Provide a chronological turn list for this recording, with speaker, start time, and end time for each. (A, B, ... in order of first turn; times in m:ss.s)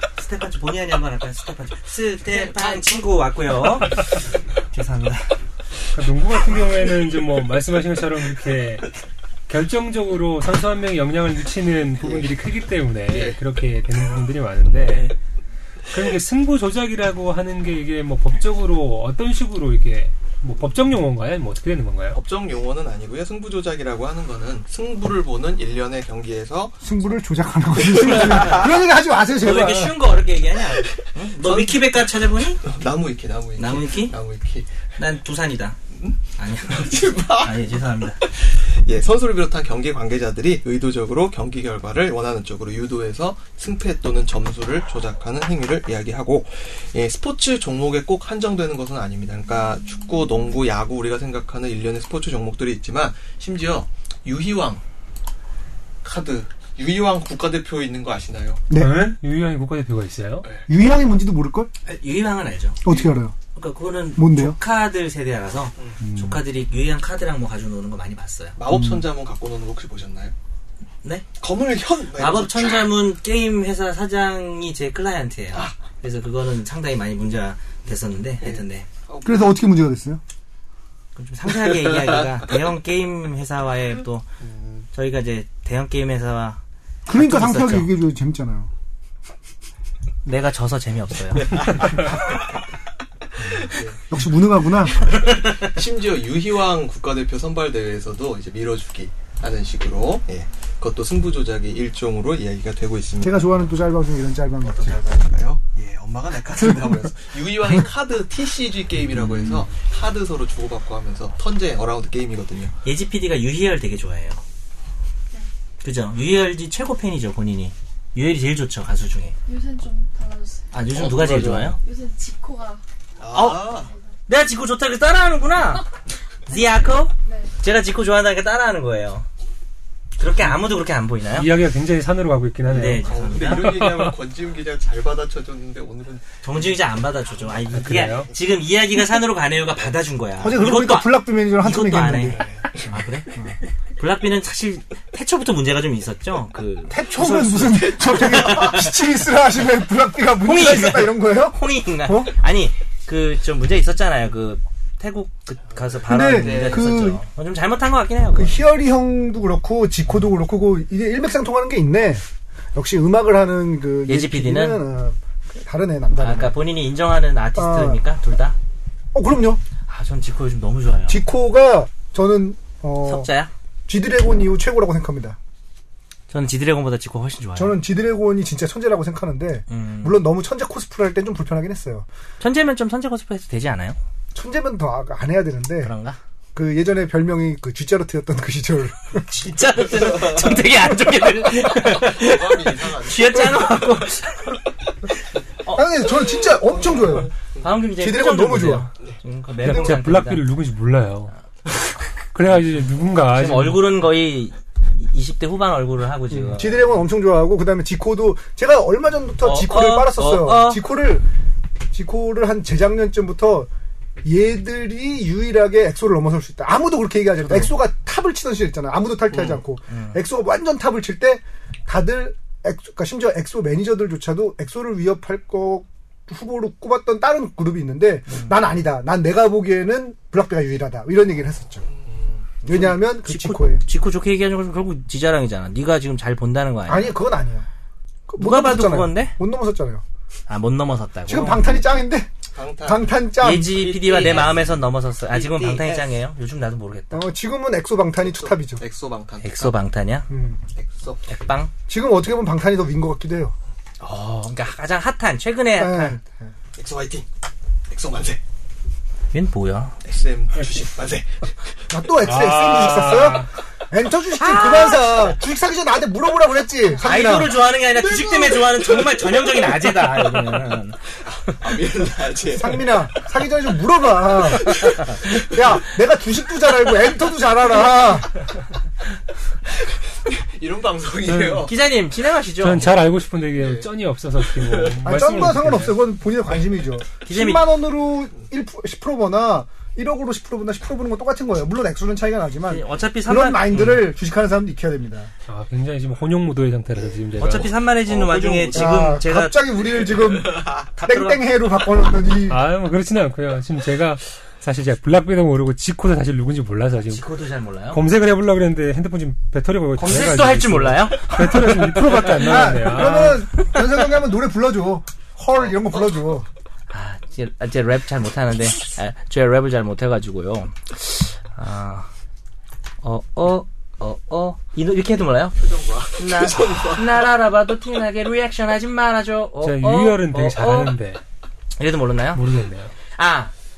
0:00.2-0:04.2 A
0:02.5-0:02.8 B
0:04.7-0:05.4 A
0:05.9-0:08.9 C
0:09.5-0:15.1 C
0:12.0-0:12.3 B
0:13.1-0:13.4 B
0:14.8-0:15.1 B
0:15.9-0:22.2 C
0:20.5-0:20.8 B
0:22.1-0:26.8 B
0:26.8-0:30.1 D
0:27.8-0:28.8 B
0:29.4-0:32.6 A
0:30.8-0:35.0 B
0:33.6-0:34.2 A
0:35.0-0:35.8 A
0:35.9-0:54.8 B
0:36.4-0:38.2 A
0:56.0-0:58.6 B
0:58.7-0:59.1 D
0:58.8-1:00.5 C
1:00.7-1:01.7 D
1:01.8-1:02.8 A
1:02.8-1:03.4 D
1:03.6-1:08.6 A
1:04.2-1:04.6 D
1:06.0-1:06.4 D
1:08.6-1:10.3 B
1:08.7-1:09.0 D
1:11.4-1:12.9 B
1:12.2-1:18.9 A
1:18.4-1:19.6 B
1:19.2-1:20.2 D
1:21.2-1:24.3 A
1:24.4-1:24.9 B
1:24.9-1:26.6 A
1:27.1-1:28.7 D
1:27.1-1:27.9 A
1:30.2-1:31.8 A
1:31.4-1:32.3 B
1:33.5-1:35.1 D
1:33.6-1:34.1 B
1:35.1-1:43.6 B
1:35.1-1:35.7 A
1:43.2-1:45.2 D
1:44.6-1:52.8 B
1:52.8-1:54.4 A
1:55.8-1:59.4 A
1:59.5-2:00.8 E
2:00.7-2:01.8 A
2:00.9-2:01.8 B
2:01.8-2:02.8 E
2:03.2-2:03.9 B
2:03.3-2:03.6 A
2:03.7-2:04.2 E
2:04.3-2:05.8 A
2:06.5-2:07.6 E
2:06.5-2:09.3 A
2:10.2-2:11.6 A
2:11.3-2:14.2 C
2:12.7-2:13.8 A
2:13.0-2:18.3 B
2:16.4-2:23.4 A
2:17.8-2:18.3 C
2:20.4-2:22.5 D
2:22.3-2:23.0 B
2:24.0-2:29.0 A
2:26.9-2:32.4 D
2:28.0-2:28.7 B
2:30.4-2:38.6 A
2:35.8-2:37.0 B
2:36.1-2:37.2 D
2:38.4-2:42.2 D
2:42.8-2:46.6 D
2:44.1-2:44.8 A
2:46.2-2:48.6 A
2:47.6-2:48.2 D
2:49.1-2:49.6 D
2:49.9-2:51.2 A
2:51.1-2:53.3 D
2:53.0-2:53.5 A
2:53.9-2:55.4 D
2:56.3-2:57.8 A
2:57.6-3:02.1 D
2:59.7-3:00.2 A
3:02.4-3:04.0 A
3:04.3-3:05.9 D
3:05.8-3:06.2 A
3:06.6-3:09.2 D
3:09.1-3:14.6 A
3:10.0-3:10.6 B
3:11.8-3:13.9 B
3:15.6-3:16.5 A
3:15.7-3:17.3 D
3:16.6-3:17.7 B
3:17.6-3:20.4 A
3:18.0-3:18.9 D
3:19.6-3:20.0 D
3:19.6-3:21.3 C
3:22.3-3:23.8 C
3:23.3-3:26.9 A
3:26.3-3:31.3 D
3:29.4-3:30.8 A
3:31.9-3:33.7 D
3:34.2-3:51.9 D
3:37.5-3:37.7 A
3:39.3-3:39.6 B
3:39.9-3:40.2 A
3:48.3-3:48.6 A
3:51.9-3:52.6 B
3:52.6-3:53.8 D
3:52.7-3:57.2 A
3:56.9-3:57.7 D
3:58.3-4:00.0 D
3:58.4-3:59.4 A
4:00.5-4:01.8 A
4:01.3-4:02.3 D
4:02.5-4:06.1 B
4:02.8-4:03.8 D
4:03.4-4:07.3 A
4:07.1-4:08.8 D
4:08.2-4:09.8 B
4:09.4-4:10.3 A
4:10.3-4:10.6 D
4:10.8-4:11.3 B
4:11.3-4:11.7 A
4:11.9-4:13.6 D
4:14.0-4:16.2 A
4:15.8-4:16.5 D
4:16.8-4:17.3 B
4:17.9-4:18.4 B
4:19.3-4:20.0 A
4:20.0-4:21.8 B
4:21.9-4:27.6 D
4:22.2-4:23.5 C
4:24.4-4:25.3 A
4:27.0-4:31.6 A
4:27.8-4:30.1 B
4:31.3-4:33.3 B
4:32.5-4:34.8 D
4:34.6-4:35.6 B
4:35.3-4:38.3 D
4:39.9-4:41.7 B
4:41.2-4:41.7 C
4:41.6-4:43.0 A
4:42.6-4:46.0 C
4:43.6-4:43.9 B
4:44.5-4:45.1 B
4:45.0-4:55.3 D
4:47.2-4:47.8 A
4:52.7-4:54.1 A
4:55.5-4:57.8 C
4:57.4-4:59.8 A
4:57.4-4:58.8 B
4:58.7-5:02.6 D
4:59.8-5:00.8 B
5:01.0-5:01.5 A
5:02.5-5:07.2 C
5:07.1-5:08.0 A
5:07.9-5:13.4 C
5:10.0-5:11.8 A
5:12.2-5:16.5 D
5:15.6-5:16.2 B
5:16.9-5:22.1 A
5:23.0-5:25.6 A
5:25.5-5:27.3 B
5:26.2-5:31.0 A
5:29.6-5:31.2 C
5:31.8-5:32.5 A
5:32.4-5:32.9 C
5:33.1-5:33.5 A